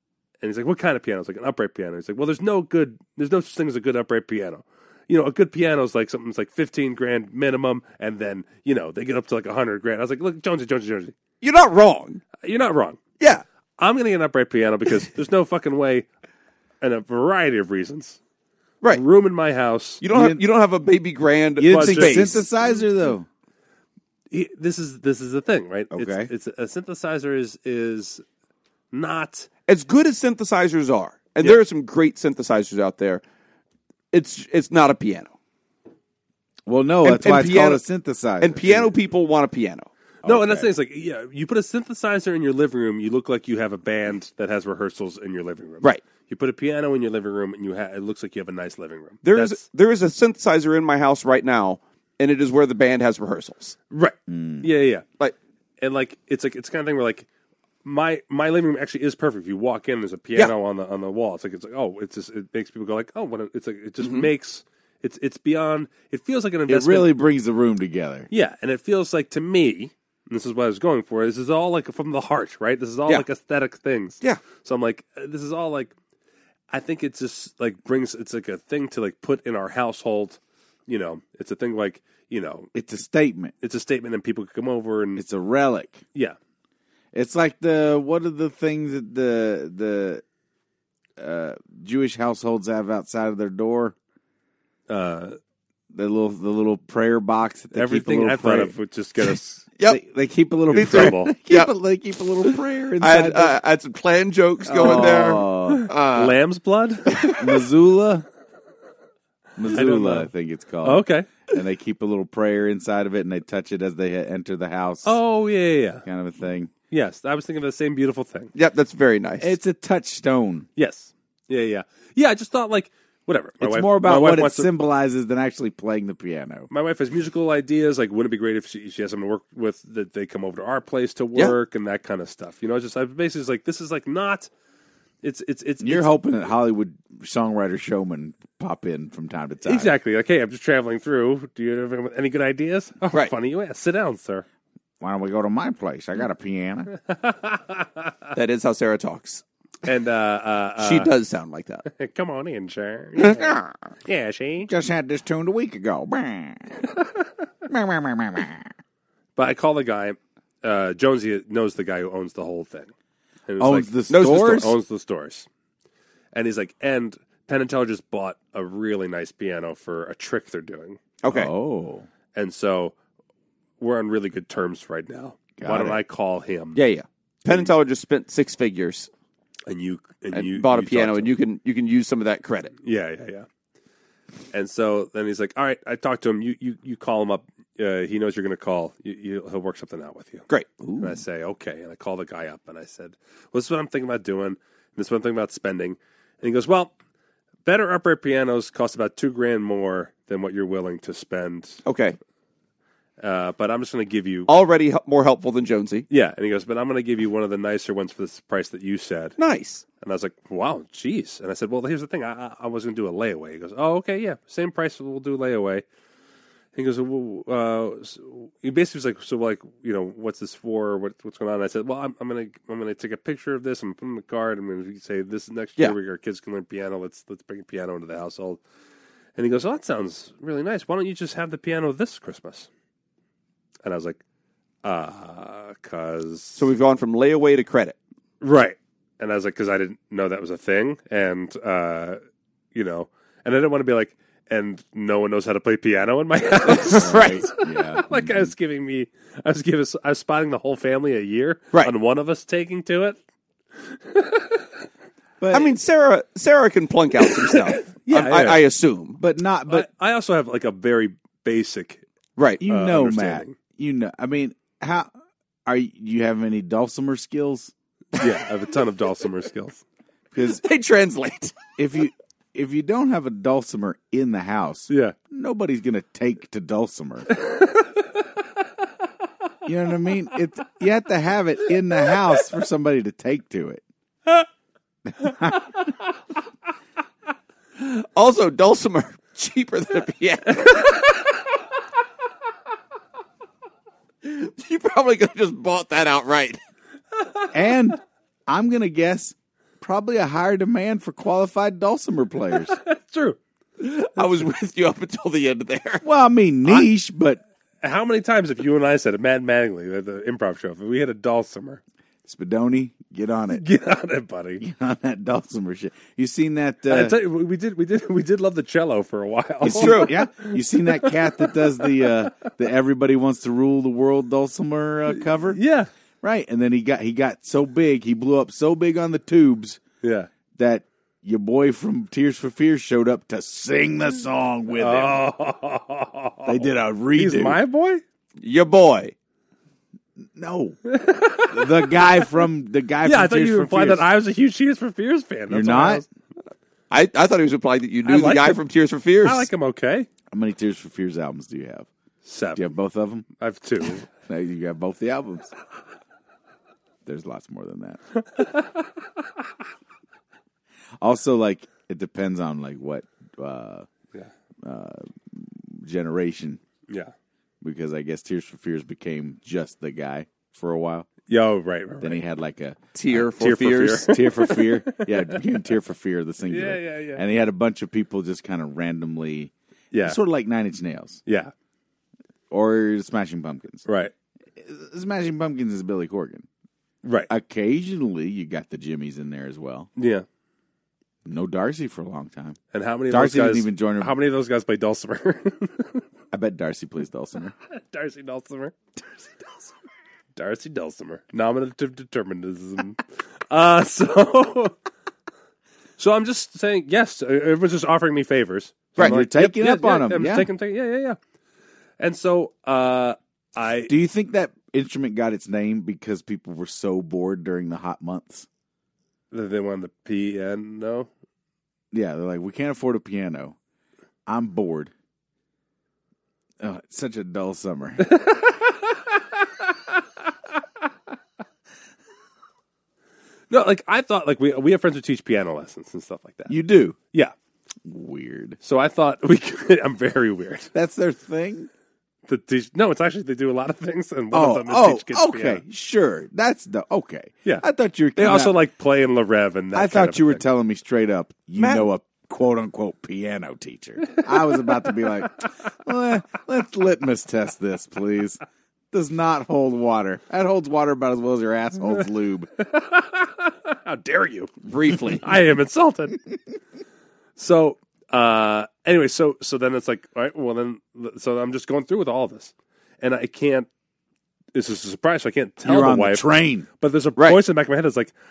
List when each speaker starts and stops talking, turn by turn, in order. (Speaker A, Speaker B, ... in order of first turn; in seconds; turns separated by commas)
Speaker A: 0.4-11.2, Speaker B: 11.4-12.2, Speaker A: 12.4-13.0, Speaker A: 13.8-16.1, Speaker A: 16.8-18.2, Speaker A: 18.9-20.0, Speaker B: 20.0-22.4, Speaker C: 20.1-20.4, Speaker C: 21.6-23.3, Speaker A: 21.7-22.5, Speaker A: 24.3-28.2, Speaker C: 25.9-26.3, Speaker A: 28.9-29.5, Speaker B: 29.7-33.2, Speaker B: 34.1-35.3, Speaker C: 36.6-38.9, Speaker B: 37.0-37.8, Speaker B: 38.4-39.9, Speaker C: 40.2-40.7, Speaker A: 40.2-49.6, Speaker B: 49.2-53.8, Speaker A: 53.9-55.0, Speaker C: 54.3-54.7, Speaker A: 55.8-57.2, Speaker A: 57.8-67.3, Speaker B: 64.0-64.3, Speaker C: 66.7-68.3, Speaker A: 68.3-75.9, Speaker A: 76.7-82.7, Speaker C: 82.7-83.5, Speaker A: 83.6-85.2, Speaker C: 85.2-86.0, Speaker C: 87.1-90.2, Speaker C: 91.2-93.9, Speaker A: 94.9-95.4, Speaker C: 95.9-98.7, Speaker A: 97.7-99.7, Speaker C: 99.8-103.6, Speaker B: 100.7-101.7, Speaker A: 100.7-101.3, Speaker B: 103.0-106.3, Speaker A: 104.7-107.3, Speaker C: 104.7-105.9, Speaker C: 107.3-108.2, Speaker C: 109.6-115.2, Speaker A: 109.7-110.3, Speaker A: 110.8-111.3, Speaker A: 115.0-116.0, Speaker C: 116.0-116.7, Speaker A: 116.9-118.5, Speaker B: 118.5-119.5, Speaker C: 119.4-120.7, Speaker A: 120.8-124.7, Speaker C: 123.6-126.7, Speaker A: 126.7-134.5, Speaker A: 135.2-136.1, Speaker C: 135.8-139.9, Speaker A: 139.6-144.4, Speaker C: 145.0-146.9, Speaker A: 147.1-147.9, Speaker B: 148.3-149.4, Speaker A: 149.8-151.1, Speaker B: 150.8-151.8, Speaker A: 151.9-154.7, Speaker B: 153.2-153.7, Speaker C: 154.7-156.8, Speaker C: 157.7-158.7, Speaker A: 159.3-162.9, Speaker A: 163.5-165.5, Speaker C: 163.6-164.7, Speaker B: 164.1-164.7, Speaker A: 166.3-171.0, Speaker B: 171.2-171.5, Speaker C: 171.3-172.1, Speaker A: 172.3-172.9, Speaker A: 173.8-176.8, Speaker C: 175.6-176.0, Speaker B: 176.7-179.1, Speaker A: 179.7-181.3, Speaker B: 180.3-182.7, Speaker A: 182.8-183.5, Speaker A: 184.5-190.5, Speaker B: 190.5-191.1, Speaker A: 191.0-196.9, Speaker A: 197.6-201.8, Speaker B: 201.8-202.2, Speaker A: 203.2-204.5, Speaker B: 204.5-206.1, Speaker A: 206.1-209.4, Speaker B: 209.4-209.8, Speaker A: 210.0-215.8, Speaker A: 216.7-228.6, Speaker A: 229.3-232.7, Speaker A: 233.8-234.2, Speaker A: 234.8-236.7, Speaker B: 236.6-237.9, Speaker A: 238.4-242.2, Speaker A: 242.7-253.2, Speaker B: 246.7-247.4, Speaker C: 246.8-248.5, Speaker A: 253.9-254.7, Speaker C: 255.4-255.7, Speaker B: 255.5-259.2, Speaker A: 257.4-258.6, Speaker C: 259.2-259.9, Speaker A: 259.7-262.0, Speaker B: 262.4-262.6, Speaker C: 262.6-265.1, Speaker A: 262.6-263.6, Speaker C: 265.6-267.7, Speaker A: 268.2-269.8, Speaker C: 270.3-270.6, Speaker B: 270.6-271.6, Speaker C: 271.8-277.3, Speaker A: 274.9-275.1, Speaker A: 277.3-278.0, Speaker C: 279.6-283.8, Speaker C: 285.1-285.7, Speaker B: 287.8-290.8, Speaker A: 290.5-291.4, Speaker B: 294.2-296.6, Speaker A: 297.2-297.5, Speaker C: 297.5-302.8, Speaker A: 302.6-303.4, Speaker B: 303.8-306.0, Speaker A: 304.2-304.5, Speaker C: 306.0-307.4, Speaker A: 307.8-311.8, Speaker C: 312.2-313.6, Speaker A: 313.6-314.6, Speaker C: 314.6-317.1, Speaker A: 316.9-322.3, Speaker C: 319.6-325.6, Speaker B: 319.7-320.1, Speaker A: 325.1-325.9, Speaker C: 326.2-329.8, Speaker A: 330.0-330.3, Speaker C: 330.6-335.2, Speaker A: 334.8-338.0, Speaker C: 336.4-337.6, Speaker B: 338.4-339.1, Speaker C: 340.3-340.8, Speaker A: 340.9-342.1, Speaker C: 341.4-344.1, Speaker A: 343.0-346.0, Speaker C: 345.5-346.0, Speaker B: 346.9-349.5, Speaker A: 348.0-348.6, Speaker A: 349.2-350.1, Speaker C: 350.3-351.9, Speaker A: 352.2-352.7, Speaker C: 352.5-353.2, Speaker A: 353.4-354.0, Speaker C: 354.1-355.5, Speaker C: 357.0-358.0, Speaker A: 358.3-358.7, Speaker C: 361.0-363.9, Speaker C: 364.6-366.6, Speaker C: 367.6-371.1, Speaker A: 371.3-372.2, Speaker C: 372.0-372.8, Speaker B: 372.9-374.1, Speaker A: 373.1-375.4, Speaker C: 373.9-379.5, Speaker A: 376.5-377.2, Speaker A: 379.9-380.2, Speaker C: 380.0-381.2, Speaker A: 381.3-381.5, Speaker C: 382.5-383.9, Speaker A: 383.9-384.1, Speaker C: 384.6-386.5, Speaker A: 387.0-387.3, Speaker C: 387.3-389.9, Speaker A: 390.0-390.2, Speaker C: 391.2-392.6, Speaker A: 392.7-396.0, Speaker C: 393.1-394.1, Speaker C: 396.3-397.5, Speaker A: 397.7-399.7, Speaker A: 400.4-404.7, Speaker A: 406.0-411.2, Speaker C: 409.0-410.5, Speaker A: 412.0-413.9, Speaker C: 413.9-418.5, Speaker A: 419.3-421.1, Speaker C: 421.9-423.5, Speaker C: 424.3-424.9, Speaker C: 426.6-428.1, Speaker A: 428.0-428.9, Speaker A: 433.5-436.5, Speaker C: 436.5-437.0, Speaker C: 437.8-438.6, Speaker A: 438.6-440.7, Speaker C: 440.7-441.7, Speaker A: 442.3-445.6, Speaker C: 444.3-448.6, Speaker A: 448.1-450.4, Speaker C: 449.7-458.4, Speaker B: 451.6-451.9, Speaker C: 458.9-462.5, Speaker A: 462.6-466.2, Speaker B: 464.7-465.2, Speaker A: 467.4-473.7, Speaker A: 474.5-476.2, Speaker C: 475.6-476.6, Speaker A: 476.8-478.1